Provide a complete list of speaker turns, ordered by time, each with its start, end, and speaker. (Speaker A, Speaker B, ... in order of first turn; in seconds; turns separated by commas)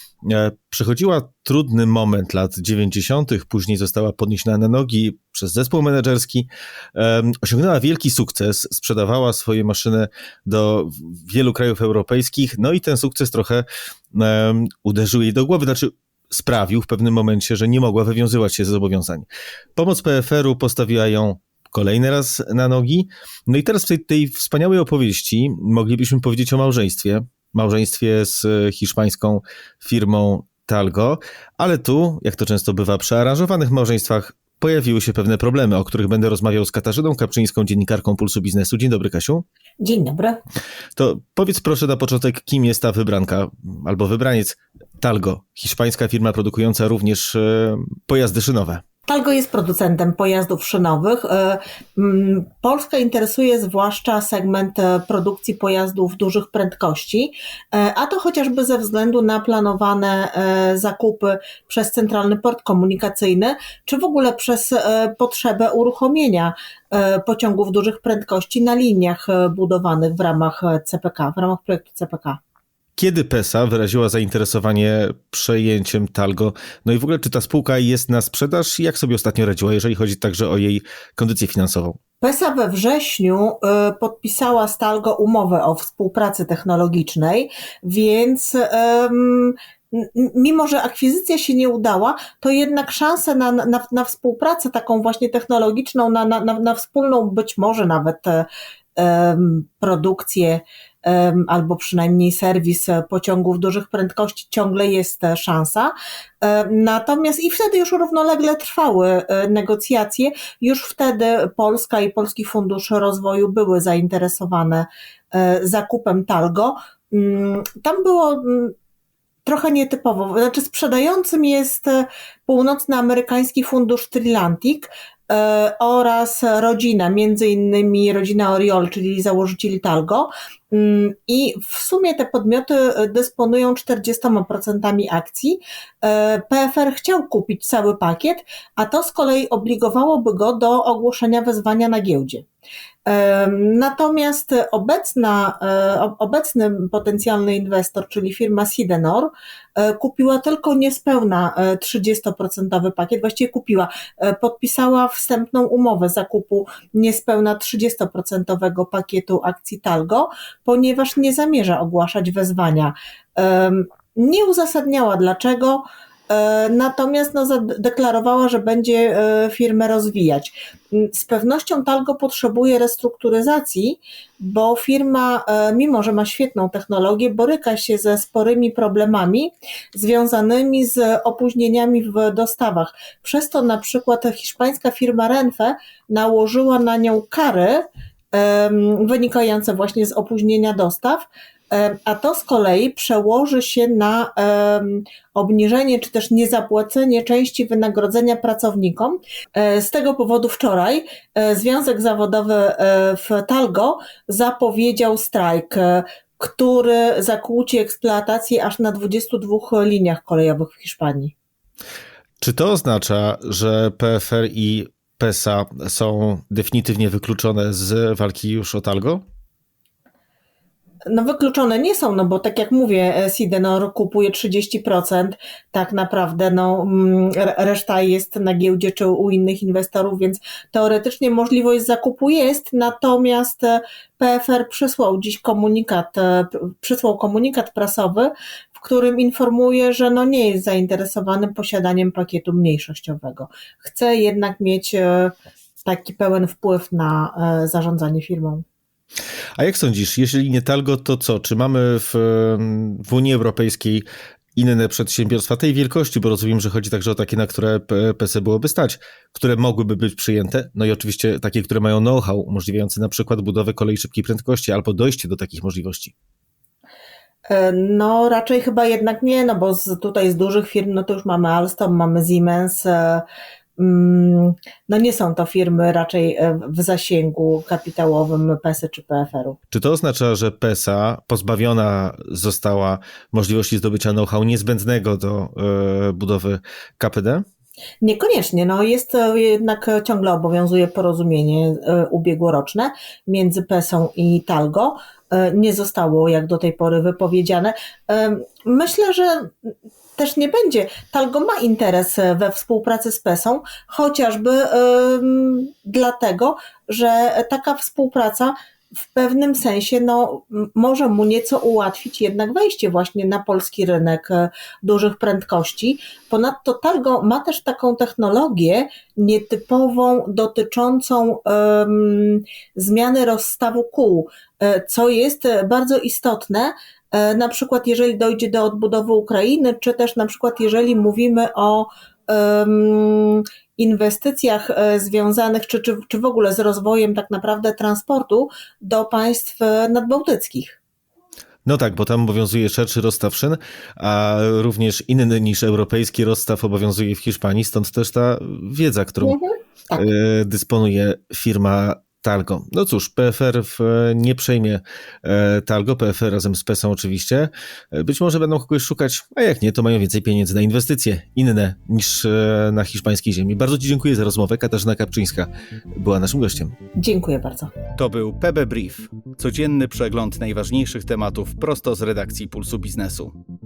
Speaker A: 0.2-39.4, Speaker B: 39.8-40.4, Speaker A: 41.0-48.8, Speaker B: 49.1-72.4, Speaker A: 73.0-82.0, Speaker B: 82.2-118.7, Speaker B: 119.4-142.4, Speaker B: 143.1-211.3, Speaker A: 212.4-219.2, Speaker B: 221.1-248.6, Speaker A: 249.6-254.0, Speaker A: 254.6-266.1, Speaker B: 267.5-273.2, Speaker B: 273.8-279.6, Speaker A: 279.7-287.4, Speaker B: 288.0-308.5, Speaker B: 309.1-340.8, Speaker A: 341.6-349.3, Speaker B: 349.2-350.1, Speaker A: 349.9-366.7, Speaker B: 367.0-367.7, Speaker C: 368.0-373.3